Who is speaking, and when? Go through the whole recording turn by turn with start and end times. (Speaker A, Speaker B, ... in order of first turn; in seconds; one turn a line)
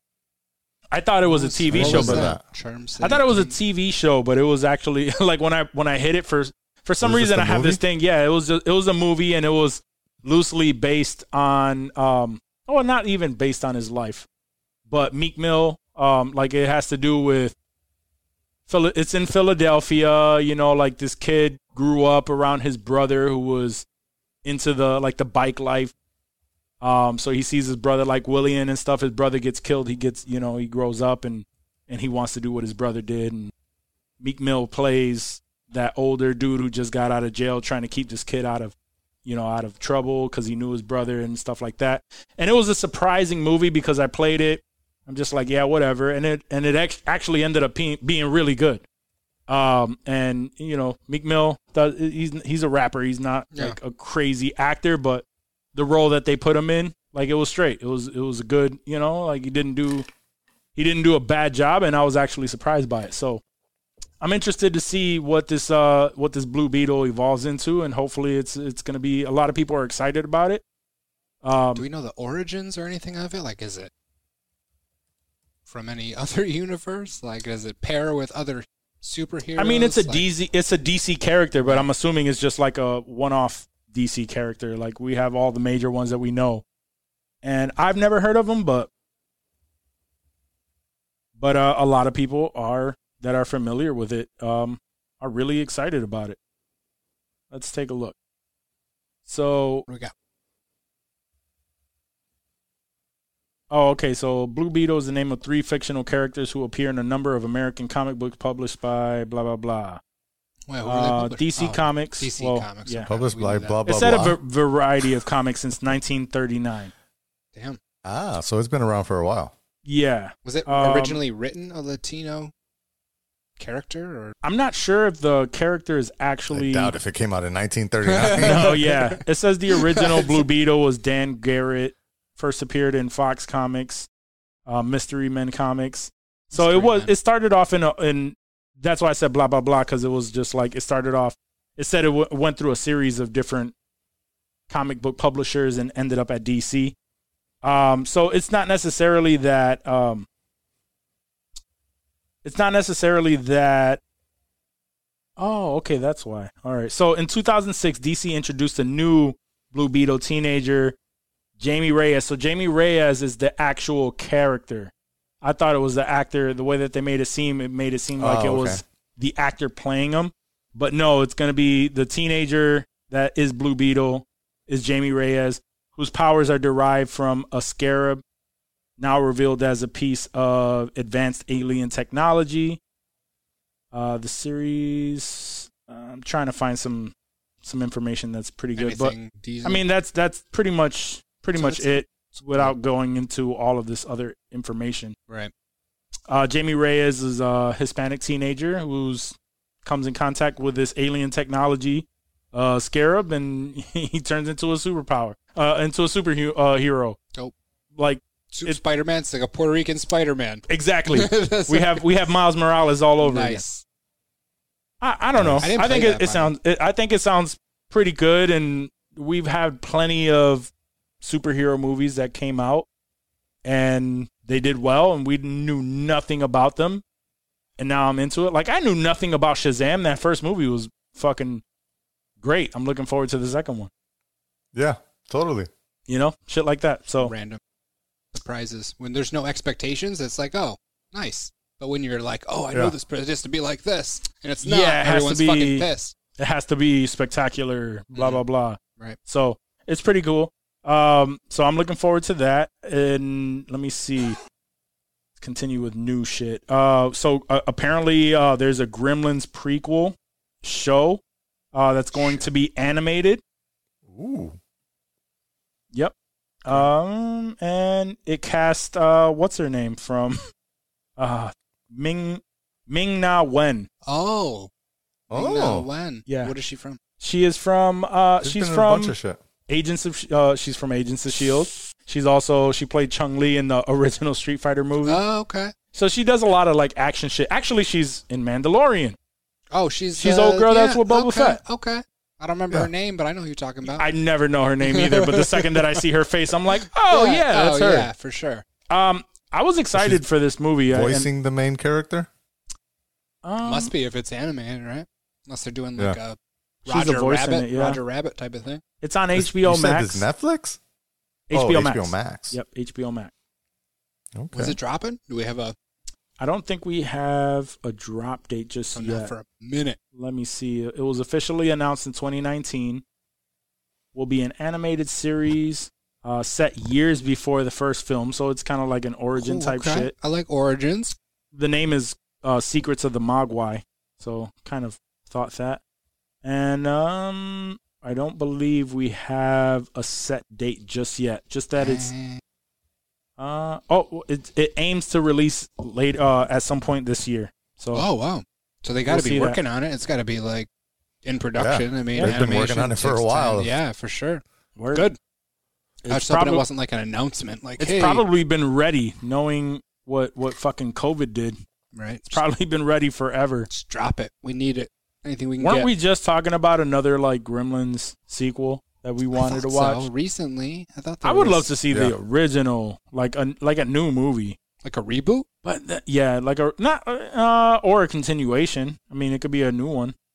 Speaker A: 0.9-2.3
Speaker B: 1.2-3.5
Speaker C: 1.7-2.4
Speaker A: 3.0-14.3
Speaker C: 7.0-7.8
Speaker A: 14.9-17.5
Speaker A: 18.7-23.9
Speaker A: 24.4-25.9
Speaker A: 26.8-33.5
Speaker A: 34.2-48.8
Speaker A: 49.5-60.1
Speaker A: 60.7-63.4
Speaker A: 64.2-70.6
Speaker A: 71.4-71.8
Speaker B: 71.7-73.9
Speaker B: 75.7-80.3
Speaker A: 79.5-86.6
Speaker A: 87.4-88.9
Speaker A: 91.4-96.4
Speaker A: 97.5-98.1
Speaker A: 99.2-99.8
Speaker A: 103.7-110.0
Speaker B: 110.7-113.8
Speaker A: 110.8-113.1
Speaker C: 113.1-114.4
Speaker A: 113.8-116.9
Speaker C: 118.0-119.5
Speaker A: 119.8-121.2
Speaker B: 120.4-122.5
Speaker B: 123.6-124.3
Speaker A: 124.4-126.9
Speaker C: 126.5-128.7
Speaker B: 128.1-129.2
Speaker A: 128.4-134.1
Speaker B: 129.7-130.3
Speaker A: 134.7-143.7
Speaker B: 136.5-137.1
Speaker A: 144.7-146.9
Speaker A: 147.6-150.3
Speaker A: 152.4-154.0
Speaker A: 155.4-160.9
Speaker A: 161.6-178.2
Speaker C: 168.2-168.8
Speaker A: 179.0-182.8
Speaker A: 183.9-195.2
Speaker B: 188.8-189.8
Speaker B: 191.5-192.7
Speaker A: 196.3-207.2
Speaker A: 208.0-208.8
Speaker B: 208.5-212.0
Speaker A: 210.7-213.6
Speaker B: 213.2-213.8
Speaker A: 215.0-220.7
Speaker C: 215.3-215.7
Speaker B: 215.6-216.5
Speaker A: 221.2-222.9
Speaker A: 223.6-227.0
Speaker A: 227.8-231.6
Speaker A: 232.4-233.9
Speaker C: 234.7-235.7
Speaker A: 236.1-237.3
Speaker B: 237.2-237.6
Speaker B: 238.3-246.1
Speaker A: 244.6-254.4
Speaker B: 248.1-248.4
Speaker A: 255.4-261.2
Speaker A: 261.7-263.4
Speaker C: 264.1-264.6
Speaker A: 265.9-270.4
Speaker A: 271.2-273.9
Speaker B: 274.0-274.7
Speaker C: 275.3-275.9
Speaker B: 275.3-277.0
Speaker A: 276.3-276.5
Speaker A: 277.2-279.1
Speaker C: 278.4-279.4
Speaker A: 279.7-285.2
Speaker B: 285.1-285.7
Speaker A: 285.9-289.2
Speaker B: 289.7-294.1
Speaker A: 290.2-291.6
Speaker A: 293.9-298.1
Speaker B: 294.9-296.0
Speaker B: 296.8-298.6
Speaker A: 298.9-301.3
Speaker C: 299.9-300.2
Speaker C: 300.9-302.3
Speaker A: 303.4-303.9
Speaker B: 303.6-308.8
Speaker A: 306.9-308.0
Speaker A: 309.0-310.2
Speaker C: 309.4-310.8
Speaker A: 311.5-313.3
Speaker C: 311.5-312.6
Speaker C: 314.3-314.8
Speaker B: 314.5-315.7
Speaker A: 316.4-319.3
Speaker B: 318.9-320.0
Speaker A: 320.1-323.0
Speaker A: 324.1-330.1
Speaker B: 329.4-331.1
Speaker A: 331.5-335.8
Speaker A: 336.4-342.1
Speaker B: 341.8-342.4
Speaker A: 343.4-348.0
Speaker B: 347.9-350.7
Speaker A: 349.1-349.6
Speaker B: 351.2-355.2
Speaker C: 351.6-353.7
Speaker A: 352.1-352.4
Speaker A: 354.8-355.1
Speaker A: 356.0-356.6
Speaker B: 356.1-358.2
Speaker A: 357.8-361.6
Speaker B: 361.9-362.4
Speaker A: 362.3-363.7
Speaker B: 363.7-365.9
Speaker A: 365.6-370.1
Speaker B: 369.3-371.7
Speaker A: 371.2-374.6
Speaker B: 374.8-375.4
Speaker A: 375.6-380.1